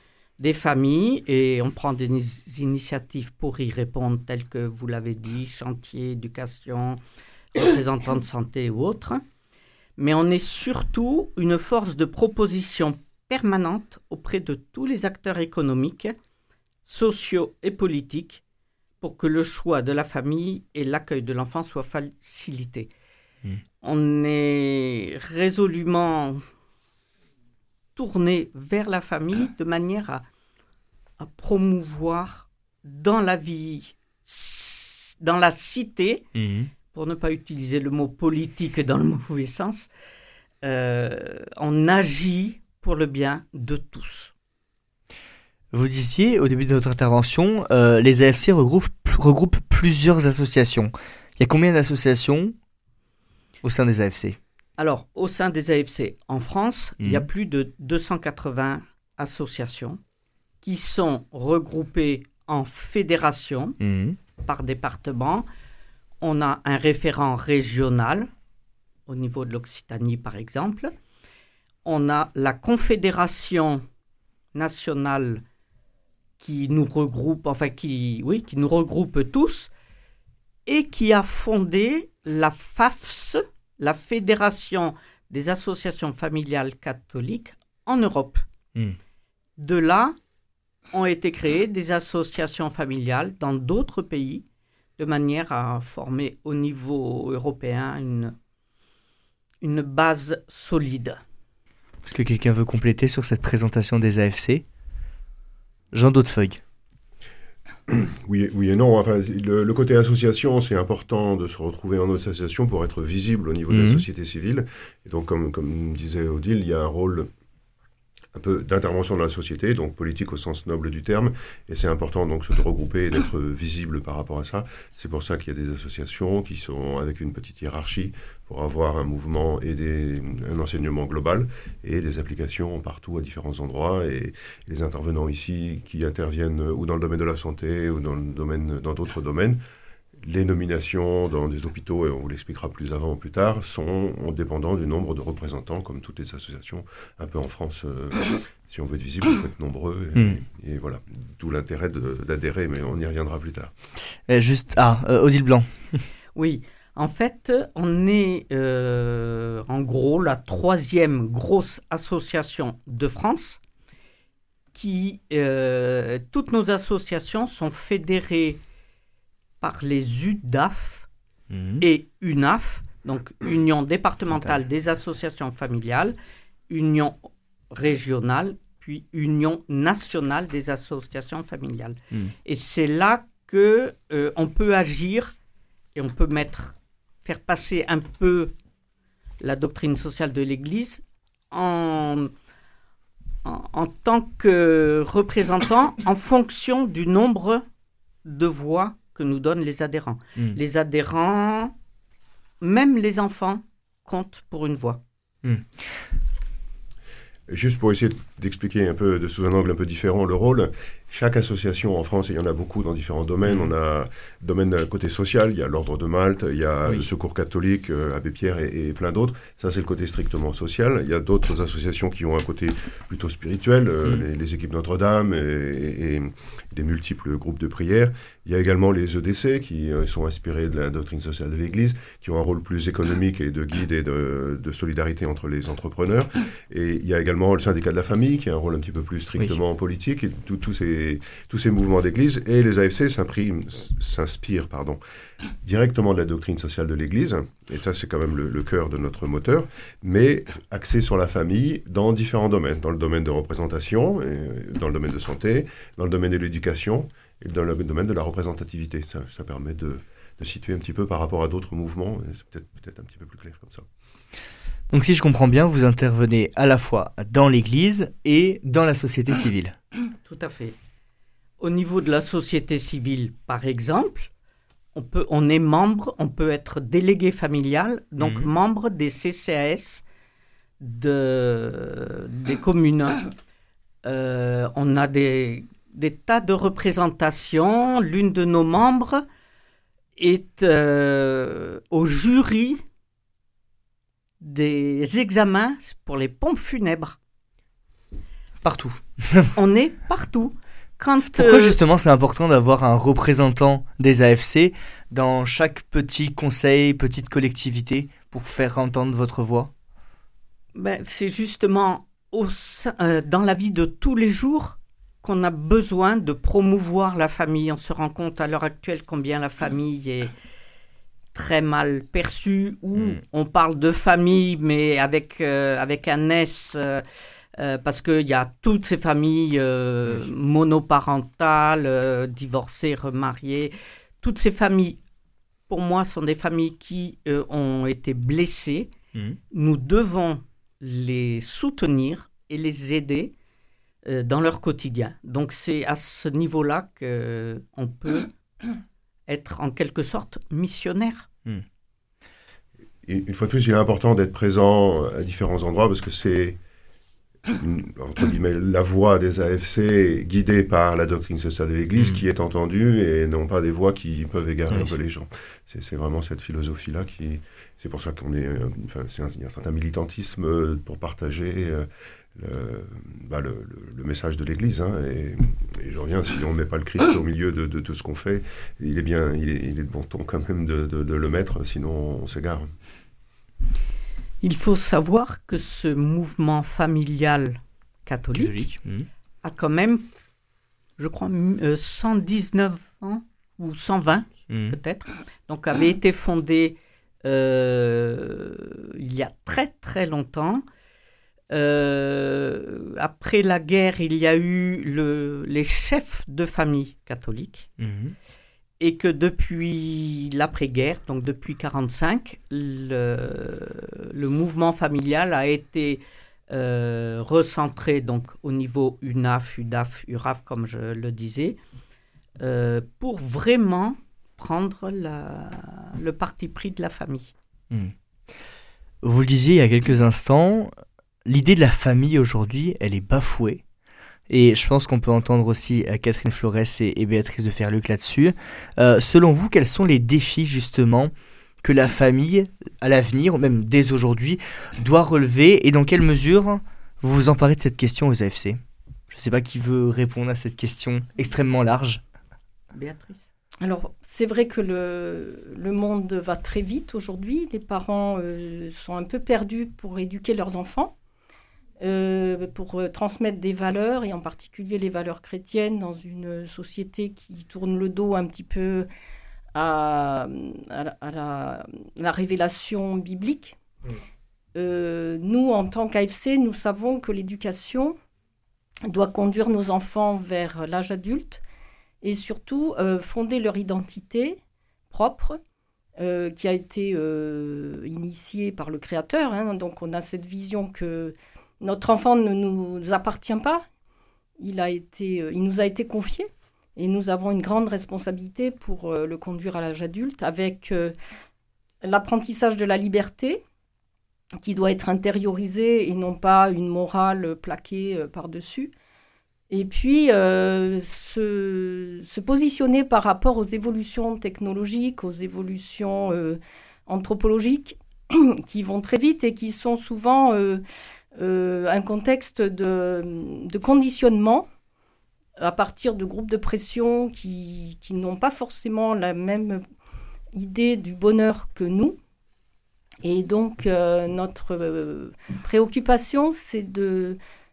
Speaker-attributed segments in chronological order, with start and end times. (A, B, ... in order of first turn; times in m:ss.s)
0:00.4-0:07.0 A
0:07.5-0:09.2 A
0:10.0-0:16.1 A
0:16.8-0:18.4 A
0:19.0-0:22.9 A
0:23.8-0:26.4 A
0:28.0-0:30.2 A
0:31.2-0:36.3 A
0:36.3-0:36.7 B
0:36.9-0:39.9 A
0:40.6-0:44.3 A
0:45.7-0:52.5 B
0:53.6-0:54.4 B
0:54.8-1:00.0 A
0:57.0-0:57.3 B
1:00.6-1:03.8 A
1:03.8-1:04.2 B
1:04.4-1:05.5 A
1:06.2-1:08.3 A
1:09.1-1:10.9 A
1:11.8-1:13.8 A
1:14.5-1:15.4 A
1:16.4-1:19.7 A
1:20.7-1:28.4 A
1:29.6-1:30.2 A
1:30.9-1:34.4 A
1:35.0-1:38.3 A
1:39.6-1:41.2 A
1:42.0-1:44.6 B
1:45.9-1:46.6 B
1:47.9-1:57.3 C
1:53.7-1:54.0 B
1:58.3-2:19.6 C
2:20.2-2:33.7 C
2:30.1-2:30.4 B
2:34.3-2:36.0 B
2:36.3-2:43.6 A
2:44.7-2:48.6 A
2:49.6-2:51.1 A
2:51.5-2:51.8 B
2:51.8-2:56.2 A
2:56.7-2:57.2 A
2:57.7-3:05.3 A
3:05.9-3:08.5 A
3:09.4-3:12.3 A
3:13.4-3:17.6 A
3:18.2-3:21.7 A
3:22.6-3:25.0 A
3:25.4-3:25.7 B
3:27.5-4:05.0 C
4:05.6-4:23.8 C
4:24.9-4:29.8 B
4:30.2-4:30.8 A
4:31.6-4:34.3 A
4:34.9-4:40.0 A
4:38.2-4:38.5 B
4:40.8-4:43.3 A
4:44.0-4:49.2 A
4:50.2-4:52.8 A
4:54.4-4:57.2 A
4:58.6-4:59.5 B
4:59.5-5:01.8 A
5:01.3-5:09.7 B
5:10.7-5:20.3 A
5:21.3-5:27.0 A
5:23.0-5:23.2 B
5:27.6-5:35.0 A
5:35.7-5:38.9 A
5:39.5-5:43.3 A
5:44.0-5:48.3 A
5:49.3-5:51.3 A
5:53.0-5:56.6 C
5:57.5-6:22.7 C
6:04.7-6:04.9 B
6:24.4-6:28.7 A
6:28.3-6:29.1 B
6:29.4-6:30.1 A
6:31.0-6:40.6 A
6:34.5-6:34.8 B
6:41.5-6:47.7 A
6:47.8-6:48.1 B
6:48.8-7:01.6 A
7:02.4-7:07.3 A
7:09.0-7:10.7 B
7:11.2-7:13.6 B
7:14.3-7:32.0 B
7:32.7-7:33.2 A
7:33.6-7:40.9 D
7:41.8-7:48.9 D
7:49.5-7:53.6 D
7:54.5-7:58.0 D
7:58.8-8:01.4 D
8:02.0-8:04.4 D
8:04.9-8:05.4 D
8:06.0-8:13.6 D
8:14.4-8:20.9 D
8:21.8-8:23.4 D
8:24.4-8:28.7 D
8:29.5-8:40.6 D
8:41.2-8:44.5 D
8:45.4-8:49.6 D
8:50.3-8:52.0 D
8:53.0-8:57.2 D